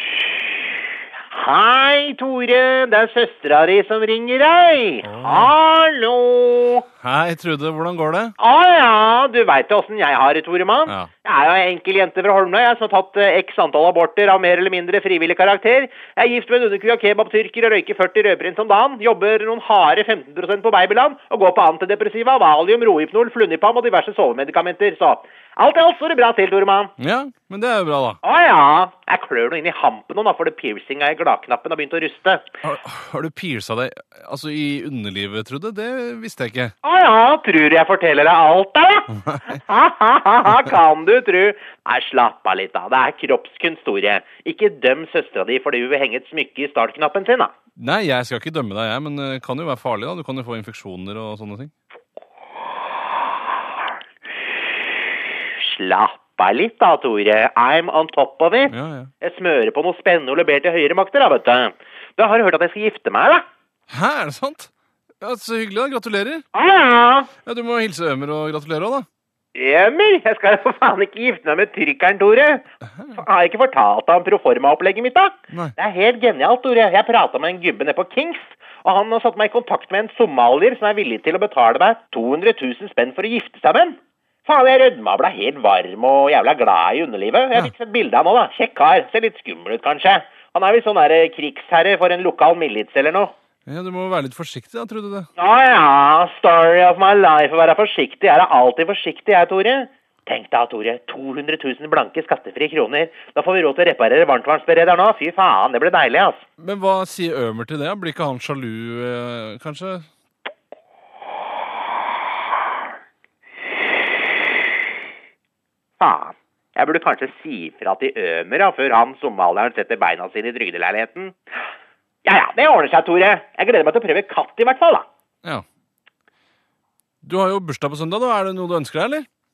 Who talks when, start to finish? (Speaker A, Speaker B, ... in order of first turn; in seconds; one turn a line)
Speaker A: 1.3-6.8
Speaker B: 5.0-5.5
Speaker B: 7.0-8.3
Speaker A: 8.4-26.9
Speaker B: 27.0-28.2
Speaker A: 28.2-32.5
Speaker B: 32.6-36.7
Speaker A: 36.8-47.5
Speaker B: 47.8-51.7
Speaker A: 55.6-63.4
Speaker B: 58.7-59.1
Speaker B: 63.9-66.4
Speaker A: 66.5-67.3
Speaker B: 67.4-69.1
Speaker A: 69.5-93.3
Speaker B: 93.7-95.3
Speaker A: 95.4-106.4
Speaker B: 106.6-110.0
Speaker A: 116.0-121.4
Speaker A: 122.2-125.1
Speaker B: 127.2-129.2